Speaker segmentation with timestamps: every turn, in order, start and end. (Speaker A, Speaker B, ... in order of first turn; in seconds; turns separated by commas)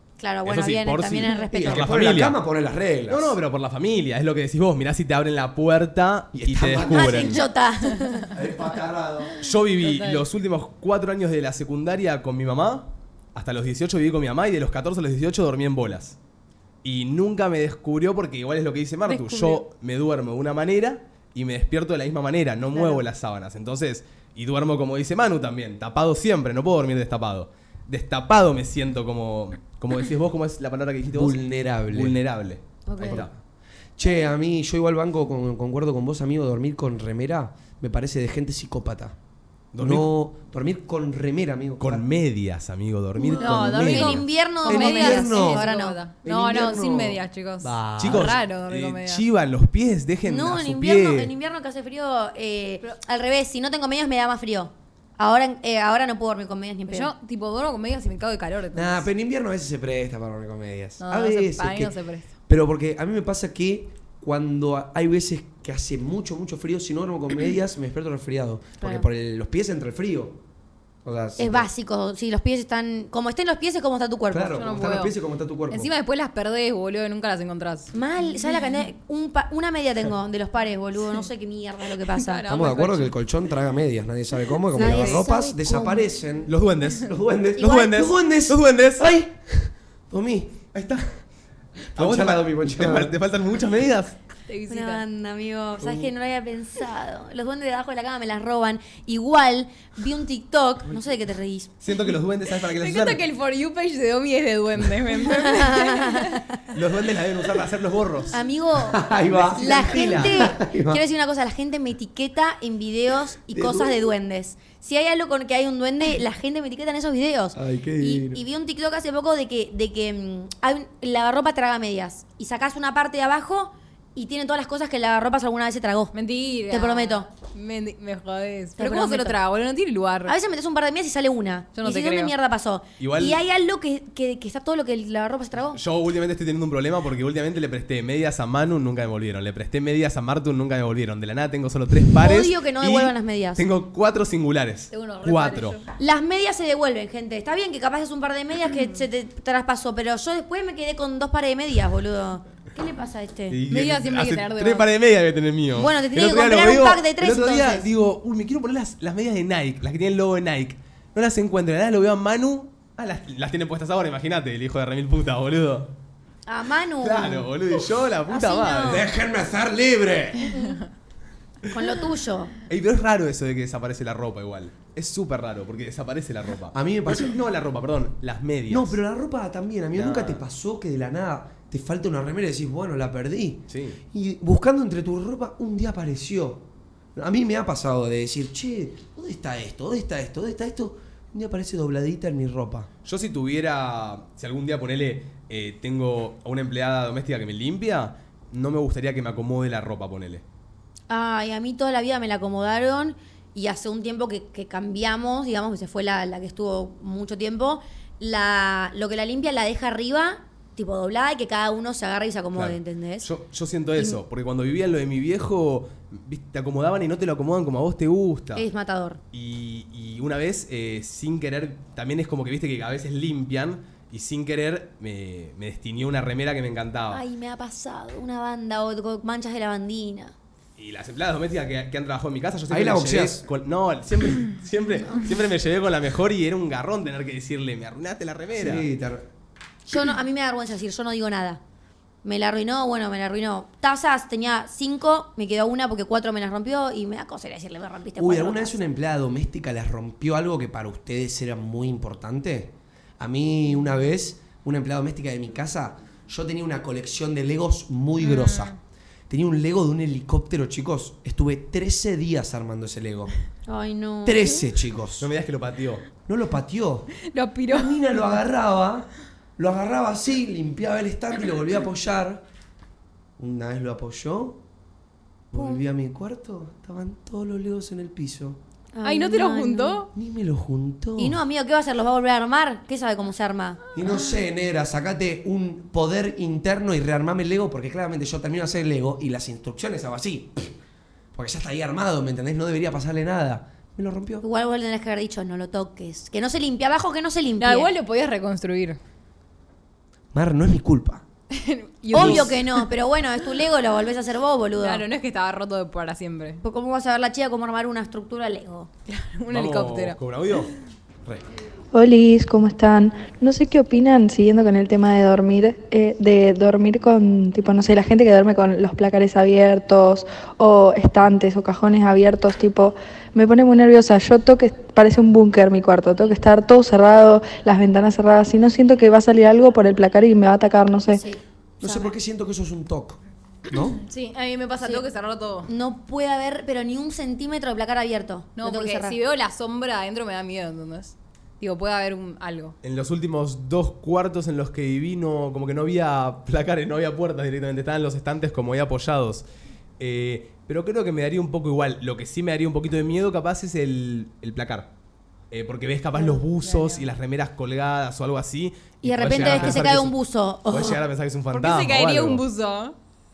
Speaker A: 0.2-1.9, Speaker B: 0.4-2.4, Speaker C: 1.5-3.4, Speaker B: 3.1-7.4, Speaker C: 6.3-7.4, Speaker A: 6.8-8.3, Speaker C: 8.3-9.3, Speaker B: 9.4-16.2, Speaker D: 9.8-10.2, Speaker B: 16.8-33.4, Speaker D: 19.1-19.6, Speaker A: 22.7-23.0, Speaker C: 31.1-32.2, Speaker A: 32.9-33.2, Speaker C: 33.0-33.3, Speaker C: 34.0-39.1, Speaker B: 39.7-40.1, Speaker C: 39.8-42.1, Speaker B: 41.8-44.2, Speaker A: 43.2-46.0, Speaker D: 43.4-49.2, Speaker C: 43.4-44.1, Speaker C: 44.6-45.7, Speaker C: 46.2-48.3, Speaker B: 48.0-51.3, Speaker A: 50.2-57.1, Speaker D: 56.9-59.1, Speaker C: 58.7-61.9, Speaker D: 61.0-62.3, Speaker C: 62.5-70.4, Speaker A: 68.8-69.0, Speaker C: 71.0-71.7, Speaker A: 71.4-74.7, Speaker C: 74.3-75.9, Speaker D: 74.6-75.1, Speaker D: 75.7-77.9, Speaker A: 77.9-82.4, Speaker D: 82.0-83.1, Speaker C: 82.5-90.7, Speaker A: 84.7-86.0, Speaker D: 84.8-85.2, Speaker B: 86.5-89.1, Speaker A: 87.6-87.9, Speaker B: 90.7-91.1, Speaker C: 91.9-93.1, Speaker B: 91.9-94.2, Speaker D: 94.5-95.0, Speaker A: 94.7-101.7, Speaker C: 95.8-96.1, Speaker B: 101.8-103.2, Speaker D: 102.6-106.4, Speaker A: 105.2-106.4, Speaker B: 106.7-108.4, Speaker A: 108.3-126.1, Speaker C: 108.8-111.0, Speaker B: 109.2-110.4, Speaker C: 113.5-114.0, Speaker C: 117.5-118.4, Speaker D: 126.1-130.3, Speaker A: 126.7-127.3, Speaker A: 128.8-129.4, Speaker A: 130.3-135.8, Speaker D: 131.7-132.3, Speaker B: 133.0-133.4, Speaker B: 135.7-145.8, Speaker A: 142.2-143.6, Speaker D: 144.9-145.9, Speaker A: 146.0-153.6, Speaker B: 153.5-165.9, Speaker D: 153.7-154.9, Speaker A: 155.7-157.9, Speaker A: 166.4-169.1, Speaker B: 167.0-169.1, Speaker C: 168.8-170.6, Speaker A: 170.5-170.8, Speaker A: 171.7-172.5, Speaker B: 172.7-179.0, Speaker C: 176.7-177.4, Speaker C: 178.7-192.9, Speaker B: 179.9-180.4, Speaker B: 183.7-184.0, Speaker B: 193.0-200.4, Speaker A: 201.1-213.3, Speaker B: 212.5-218.6, Speaker A: 218.5-219.2, Speaker B: 219.3-227.2, Speaker A: 227.1-230.3, Speaker B: 230.8-238.9, Speaker C: 232.7-233.4, Speaker C: 238.5-239.3, Speaker A: 239.9-241.6, Speaker A: 242.2-248.8, Speaker C: 248.2-258.7, Speaker D: 258.2-258.7, Speaker C: 259.3-263.3, Speaker A: 263.7-264.6, Speaker C: 264.2-265.3, Speaker B: 265.2-266.0, Speaker C: 266.2-267.1, Speaker D: 267.2-268.0, Speaker C: 267.7-272.4, Speaker C: 273.4-274.6, Speaker C: 275.5-278.6, Speaker A: 275.5-275.8, Speaker A: 278.9-280.1, Speaker D: 279.0-280.1, Speaker C: 280.1-281.4, Speaker A: 281.2-283.8, Speaker C: 283.9-290.7, Speaker C: 291.3-294.4, Speaker A: 294.4-297.9, Speaker D: 297.6-299.0, Speaker C: 300.3-301.2, Speaker D: 301.5-302.9, Speaker A: 302.1-305.0, Speaker D: 304.8-306.6, Speaker A: 306.6-308.9, Speaker D: 309.1-310.2, Speaker B: 309.5-310.7, Speaker E: 311.9-331.2, Speaker A: 331.1-332.1, Speaker C: 331.8-334.0, Speaker D: 334.1-335.7, Speaker A: 335.7-339.1, Speaker D: 338.6-342.8, Speaker B: 342.8-349.4, Speaker B: 350.0-354.9, Speaker B: 355.5-362.4, Speaker D: 356.6-357.0, Speaker A: 359.0-361.0, Speaker D: 359.4-359.8, Speaker D: 361.5-362.9